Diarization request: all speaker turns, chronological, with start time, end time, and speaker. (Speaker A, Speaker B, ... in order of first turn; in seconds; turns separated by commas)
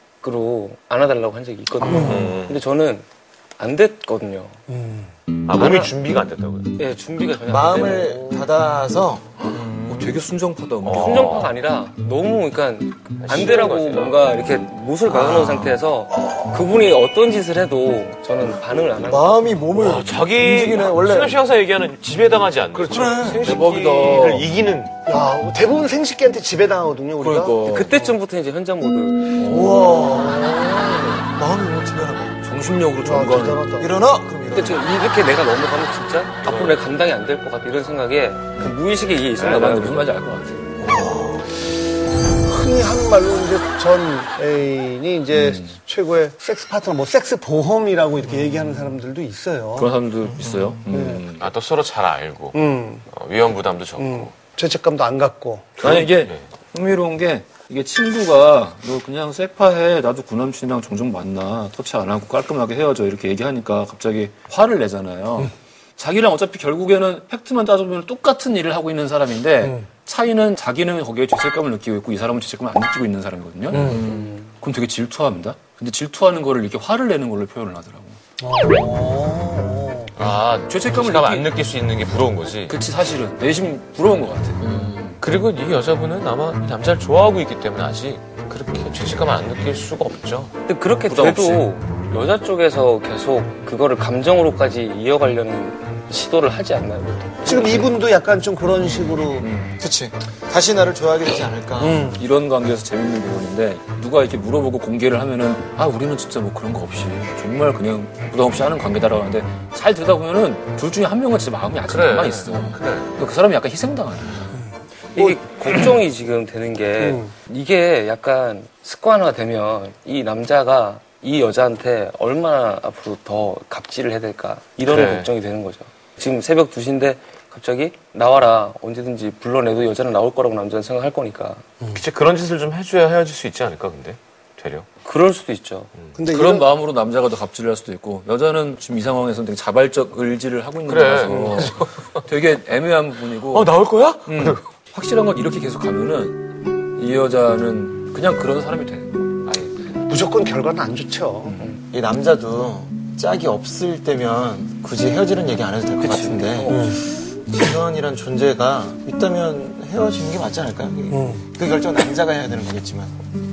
Speaker A: 0.2-3.0, Speaker B: 1.8-2.3, Speaker C: 1.9-2.6, Speaker A: 3.6-4.6, Speaker B: 4.7-5.0, Speaker C: 5.5-6.8, Speaker A: 5.5-6.0, Speaker A: 6.8-8.2, Speaker D: 7.5-9.3, Speaker B: 8.1-8.4, Speaker E: 9.5-11.3, Speaker C: 10.8-11.5, Speaker A: 11.0-19.6, Speaker C: 13.2-14.2, Speaker D: 15.1-15.8, Speaker D: 19.0-21.4, Speaker C: 19.7-24.9, Speaker D: 22.9-23.5, Speaker E: 23.5-24.5, Speaker B: 25.1-27.8, Speaker E: 27.2-28.0, Speaker A: 27.6-29.4, Speaker E: 29.4-29.8, Speaker D: 29.5-32.4, Speaker B: 30.0-30.4, Speaker E: 32.4-33.6, Speaker B: 33.0-33.9, Speaker D: 33.8-34.9, Speaker A: 34.5-40.1, Speaker C: 36.5-36.8, Speaker E: 39.4-40.6, Speaker B: 42.4-49.9, Speaker E: 49.8-51.4, Speaker B: 50.9-51.2, Speaker C: 51.4-52.6, Speaker B: 52.5-53.0, Speaker C: 53.1-54.3, Speaker B: 54.0-55.8, Speaker C: 55.8-56.4, Speaker E: 55.9-78.1, Speaker B: 73.7-74.1, Speaker A: 74.0-74.5, Speaker B: 78.4-80.1, Speaker C: 80.2-82.7, Speaker E: 80.7-81.5, Speaker E: 82.7-84.7, Speaker C: 84.6-90.5, Speaker A: 90.7-98.0, Speaker E: 91.1-91.7, Speaker B: 97.4-99.5, Speaker E: 99.4-99.7, Speaker D: 99.8-102.1, Speaker B: 101.8-102.2, Speaker E: 102.2-114.5, Speaker C: 111.9-113.1, Speaker A: 115.2-131.7, Speaker B: 117.0-117.3, Speaker C: 124.9-125.3, Speaker C: 131.9-134.9, Speaker A: 135.0-136.1, Speaker B: 136.1-136.7, Speaker E: 136.3-141.7, Speaker C: 140.9-142.2, Speaker E: 142.3-143.7, Speaker C: 143.4-144.6, Speaker E: 144.3-146.3, Speaker E: 147.0-149.7, Speaker B: 150.1-151.7, Speaker D: 151.9-163.2, Speaker A: 156.1-156.6, Speaker B: 156.7-157.0, Speaker B: 161.1-161.4